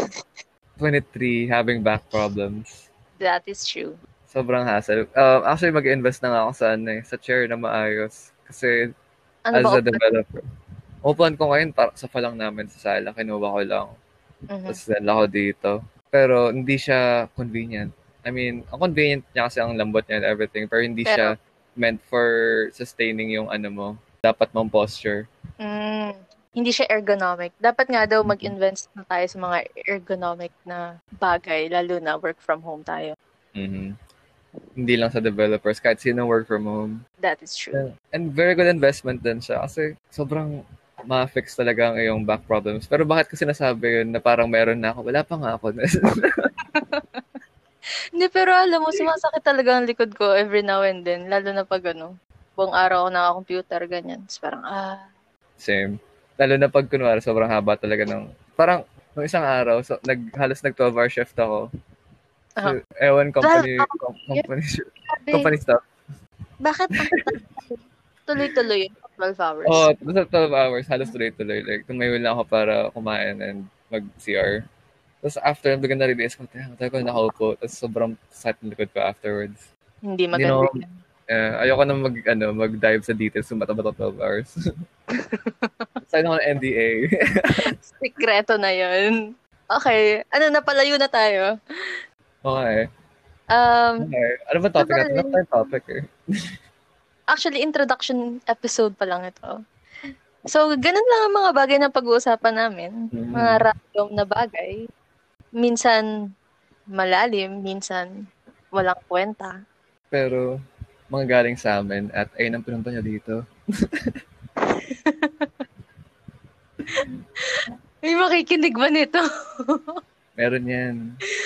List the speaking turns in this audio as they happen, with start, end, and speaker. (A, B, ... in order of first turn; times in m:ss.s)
0:00.8-0:02.7 A
0:03.2-0:04.0 B
0:04.3-0:08.8 A
0:09.5-0:10.0 B
0:09.5-0:10.4 A
0:11.0-0:13.9 A
0:14.5-0:14.8 B
0:14.7-0:25.2 A
0:21.1-0:21.3 B
0:25.6-0:33.1 B
0:28.2-0:28.5 A
0:33.6-0:33.9 A
0:34.8-0:37.0 A
0:37.2-0:37.8 B
0:37.7-0:40.5 A
0:41.1-0:46.3 A
0:46.8-0:47.2 B
0:48.2-0:55.0 B
0:55.6-1:01.6 A
1:02.6-1:05.8 A
1:03.4-1:04.5 B
1:05.1-1:05.5 B
1:06.6-1:09.9 B
1:07.0-1:07.2 A
1:09.7-1:14.6 A
1:15.2-1:19.6 A
1:20.1-1:21.0 B
1:20.3-1:20.8 A
1:21.3-1:24.5 A
1:25.3-1:25.9 B
1:26.1-1:27.6 A
1:27.6-1:29.2 B
1:29.7-1:31.5 B
1:32.4-1:32.9 A
1:33.5-1:34.1 B
1:34.0-1:36.0 A
1:34.8-1:35.4 B
1:37.3-1:39.6 B
1:40.5-1:44.8 B
1:43.1-1:43.6 A
1:45.6-1:46.0 B
1:47.0-1:48.1 B
1:48.8-1:49.5 B
1:50.1-1:50.5 A
1:51.1-1:54.1 A
1:55.0-1:55.5 B
1:57.6-2:00.0 B
2:00.4-2:01.0 A